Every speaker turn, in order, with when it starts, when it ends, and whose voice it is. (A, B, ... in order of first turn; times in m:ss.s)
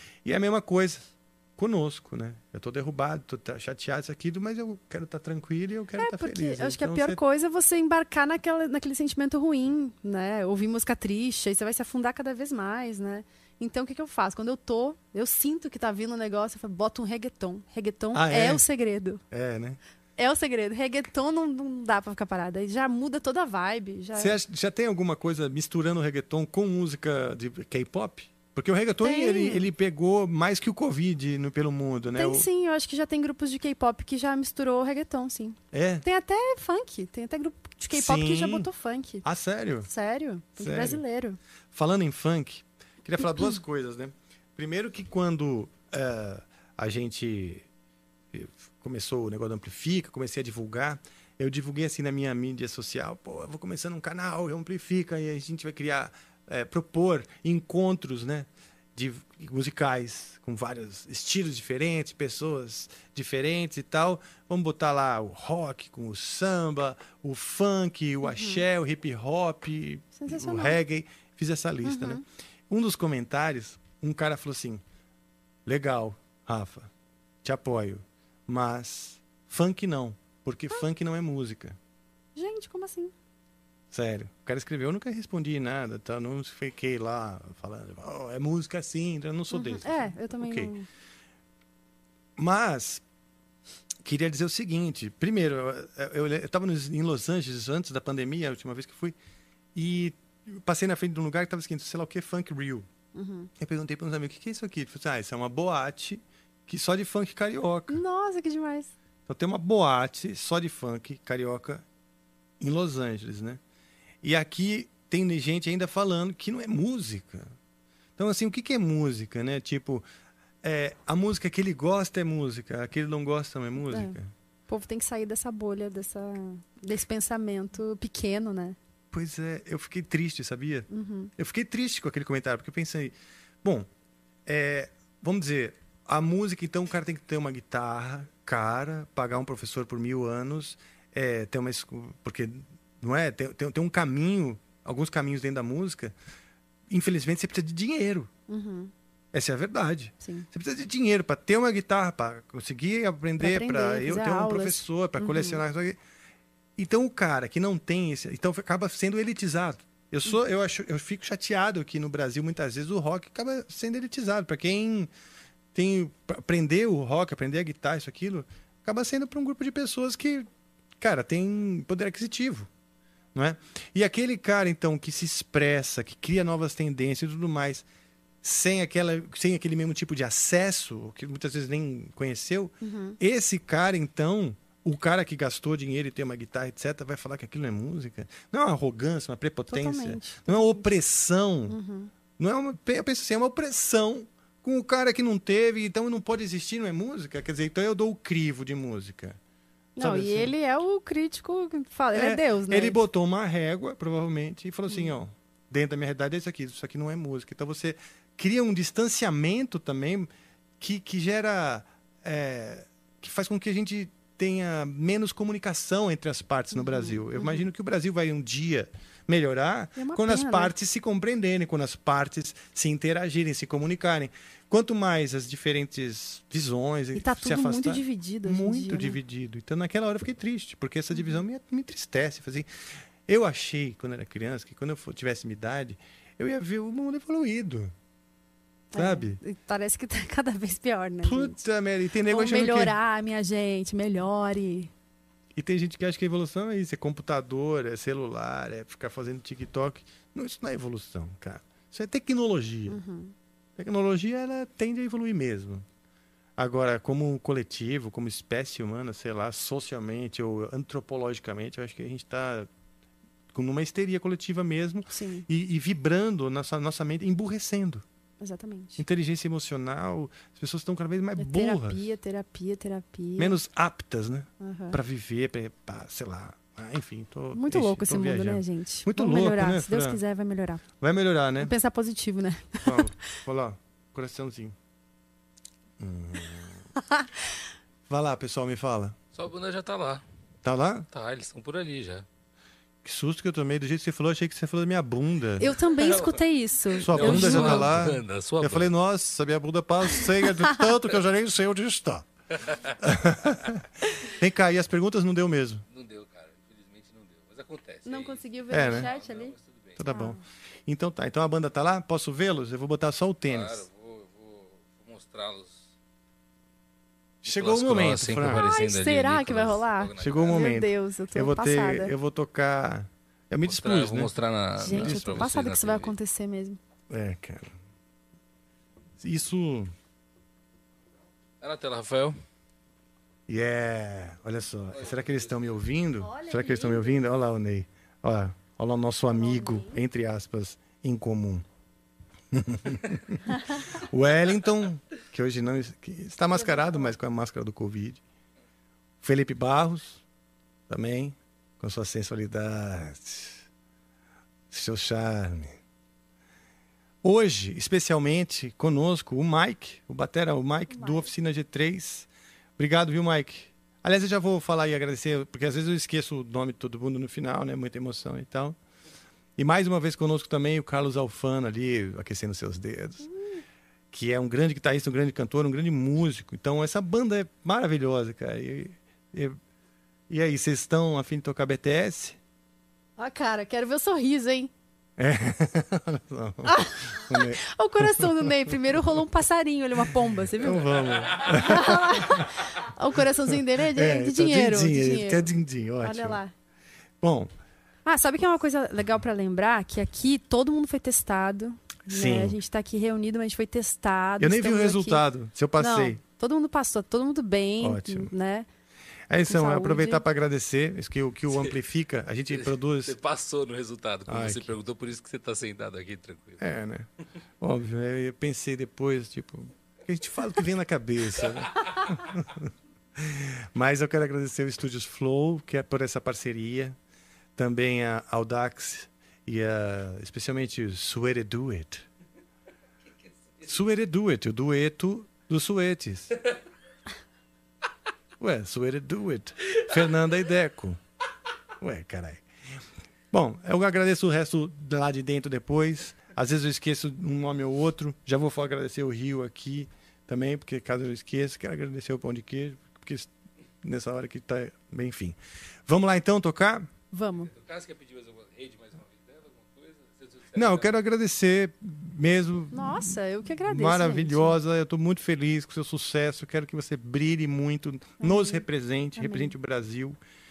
0:00.2-0:07.2 A
0:06.0-0:19.2 B
0:18.1-0:18.6 A
0:19.3-0:19.8 A
0:20.2-0:24.4 B
0:24.2-0:32.5 A
0:29.0-0:29.7 B
0:32.1-0:39.2 B
0:35.7-0:36.0 A
0:37.9-0:38.7 A
0:39.2-0:39.9 A
0:39.9-0:41.4 B
0:40.6-0:41.0 A
0:41.7-0:47.7 A
0:48.3-1:14.8 A
1:08.2-1:08.6 B
1:10.2-1:10.8 B
1:11.8-1:12.2 B
1:15.6-1:16.9 A
1:17.4-1:21.8 A
1:22.4-1:23.1 B
1:23.9-1:30.7 A
1:29.5-1:30.9 B
1:32.4-1:33.0 A
1:34.0-1:39.2 A
1:39.8-1:42.9 A
1:43.2-1:43.5 B
1:43.6-1:48.0 A
1:47.9-1:48.9 B
1:49.3-1:51.8 A
1:52.6-1:53.6 A
1:54.2-1:57.5 A
1:58.2-2:00.0 A
2:00.6-2:04.3 A
2:03.9-2:04.2 B
2:04.7-2:08.8 B
2:09.1-2:10.9 A
2:10.9-2:11.3 B
2:11.4-2:13.9 A
2:14.5-2:26.2 A
2:26.9-2:28.3 A
2:28.5-2:28.9 B
2:29.3-2:36.0 A
2:33.4-2:35.6 B
2:36.8-2:45.1 A
2:45.7-2:50.5 A
2:51.0-2:52.7 A
2:53.4-2:57.9 A
2:58.4-3:11.8 A
3:02.8-3:03.2 B
3:09.7-3:10.9 B
3:11.7-3:12.1 B
3:12.4-3:19.4 A
3:20.0-3:20.5 A
3:20.0-3:23.0 B
3:22.1-3:57.9 A
3:36.7-3:37.7 B
3:40.0-3:40.7 B
3:47.1-3:49.2 B
3:51.1-3:51.4 B
3:58.9-4:01.6 B
3:59.0-3:59.4 A
4:01.2-4:03.0 A
4:02.3-4:04.9 B
4:05.6-4:13.0 A
4:12.9-4:13.4 B
4:13.8-4:15.9 A
4:16.6-4:22.7 A
4:23.5-4:28.0 A
4:25.1-4:25.5 B
4:28.4-4:29.0 B
4:29.0-4:32.0 A
4:31.4-4:33.6 B
4:33.4-4:40.2 A
4:34.6-4:35.0 B
4:37.5-4:40.8 B
4:41.0-4:41.7 A
4:41.6-4:43.0 B
4:42.8-4:44.8 A
4:46.0-4:46.8 A
4:48.1-4:49.2 A
4:49.3-4:50.2 C
4:50.6-4:51.1 A
4:51.1-4:52.3 C
4:53.0-4:55.7 A
4:55.6-4:58.0 B
4:56.0-4:56.4 C
4:56.9-4:58.9 C
4:57.0-5:02.3 A
5:00.4-5:00.9 B
5:02.7-5:02.9 C
5:03.0-5:05.8 A
5:05.9-5:10.1 C
5:08.0-5:09.6 B
5:08.7-5:09.1 A
5:10.0-5:13.8 A
5:10.1-5:10.4 B
5:13.5-5:15.9 C
5:17.4-5:18.7 A
5:17.5-5:20.8 C
5:18.5-5:22.1 B
5:20.2-5:24.3 A
5:23.6-5:26.1 C
5:24.8-5:26.8 B
5:24.9-5:25.5 A
5:27.1-5:27.8 A
5:29.2-5:29.9 A
5:31.6-5:32.4 C
5:33.5-5:41.6 A
5:35.0-5:35.7 C
5:36.3-5:37.2 B
5:39.4-5:40.0 B
5:42.5-5:48.2 A
5:46.6-5:47.2 B
5:49.2-5:50.2 A
5:50.9-5:53.7 A
5:54.7-5:55.8 A
5:57.2-6:08.8 A
6:00.9-6:01.3 B
6:09.6-6:13.3 A
6:13.2-6:13.6 B
6:14.1-6:19.6 A
6:20.3-6:22.4 A
6:23.2-6:24.7 B
6:25.2-6:28.5 A
6:26.6-6:35.5 B
6:30.6-6:32.5 A
6:33.9-6:36.4 A
6:36.0-6:36.5 B
6:37.2-6:37.5 A
6:38.0-6:45.2 B
6:42.1-6:42.6 A
6:44.4-6:46.2 A
6:45.8-6:48.7 B
6:47.8-6:48.3 A
6:49.3-6:53.2 A
6:49.5-6:50.2 B
6:52.6-6:56.6 C
6:54.3-6:54.7 A
6:56.6-6:57.1 A
6:57.6-7:07.0 A
7:07.6-7:12.1 A
7:13.6-7:16.3 A
7:18.4-7:21.0 A
7:21.8-7:33.3 A
7:33.8-7:36.9 A
7:37.1-7:37.5 B
7:37.5-7:40.9 C
7:40.5-7:43.2 A
7:42.7-7:44.6 B
7:43.7-7:50.2 A
7:48.2-7:48.6 B
7:49.2-7:49.5 B